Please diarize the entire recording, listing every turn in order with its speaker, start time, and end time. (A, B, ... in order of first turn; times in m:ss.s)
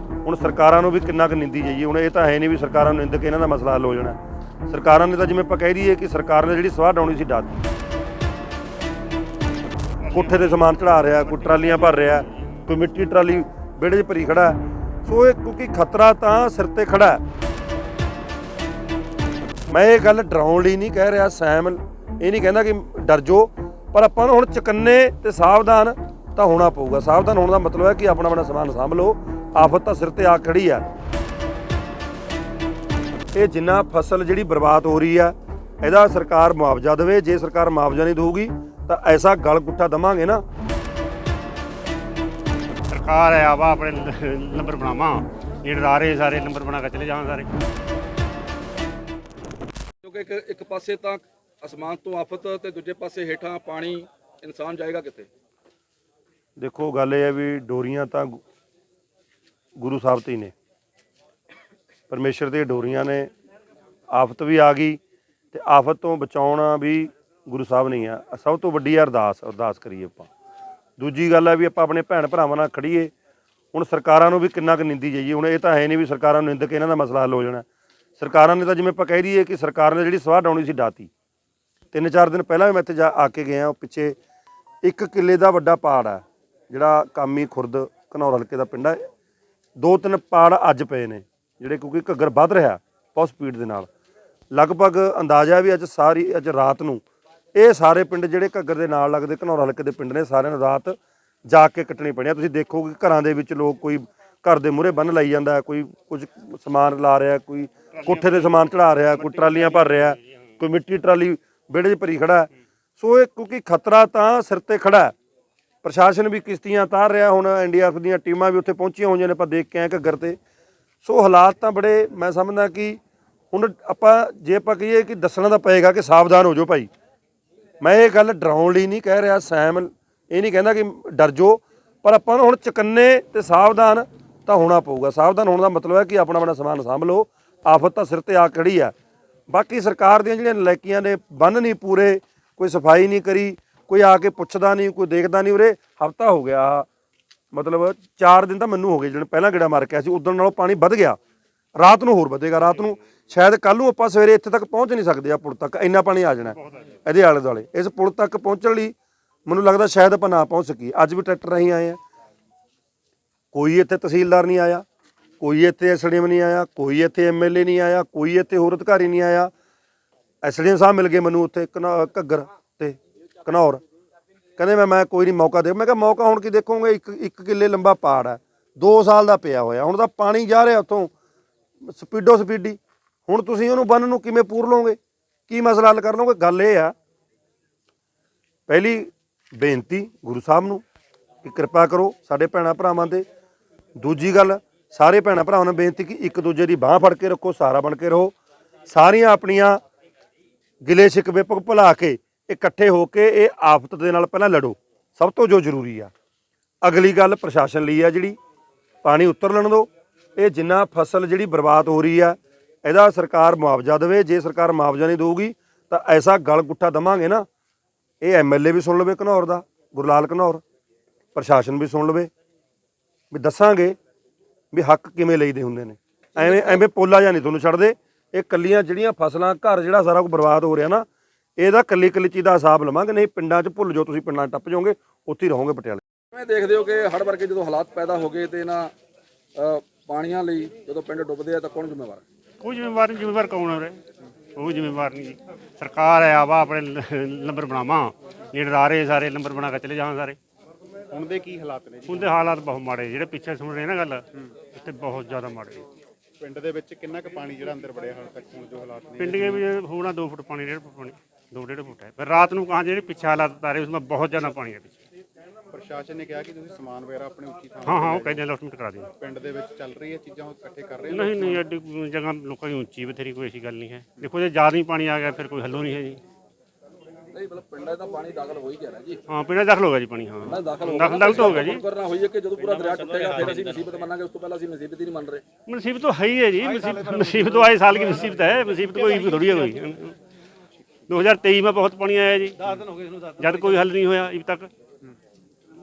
0:00.2-0:07.6 A
0:10.0-0:12.5 B
0:10.1-0:17.2 A
0:19.7-0:30.9 A
0:33.3-0:40.4 A
0:42.9-0:47.5 B
0:50.0-0:55.3 C
0:56.6-0:58.4 A
0:59.8-1:00.5 A
1:02.1-1:03.3 A
1:04.1-1:05.0 A
1:05.5-1:10.3 A
1:11.0-1:13.1 A
1:13.7-1:17.6 A
1:18.2-1:21.1 A
1:21.9-1:24.2 A
1:24.8-1:29.0 A
1:29.8-1:33.9 A
1:34.5-1:37.0 A
1:37.5-1:55.1 A
1:48.0-1:48.5 B
1:49.1-1:50.2 B
1:55.8-2:00.4 A
2:01.0-2:03.0 A
2:03.5-2:06.9 A
2:07.8-2:18.9 A
2:19.5-2:26.9 A
2:27.5-2:31.2 A
2:31.8-2:38.9 A
2:36.6-2:36.8 B
2:39.5-2:42.0 A
2:43.5-2:44.8 A
2:45.4-2:49.5 A
2:50.4-2:53.8 A
2:54.6-3:01.1 A
3:01.8-3:06.9 A
3:08.7-3:10.8 A
3:11.4-3:13.2 A
3:14.0-3:18.4 A
3:18.9-3:19.8 A
3:20.8-3:26.1 A
3:26.8-3:28.4 A
3:29.0-3:37.4 A
3:38.2-3:40.6 A
3:41.3-3:42.3 A
3:43.3-3:44.0 A
3:44.7-3:51.0 A
3:46.4-3:46.8 C
3:51.6-3:56.0 A
3:56.3-3:58.9 C
3:59.5-4:02.2 C
4:02.6-4:04.0 B
4:04.6-4:10.4 B
4:11.1-4:12.4 D
4:12.1-4:15.8 B
4:16.4-4:19.6 D
4:19.2-4:25.0 B
4:25.7-4:28.4 D
4:27.8-4:29.1 B
4:29.1-4:31.6 D
4:31.1-4:36.2 B
4:37.3-4:39.2 C
4:39.3-4:41.8 B
4:40.4-4:45.4 C
4:45.7-4:50.2 B
4:51.1-4:54.7 B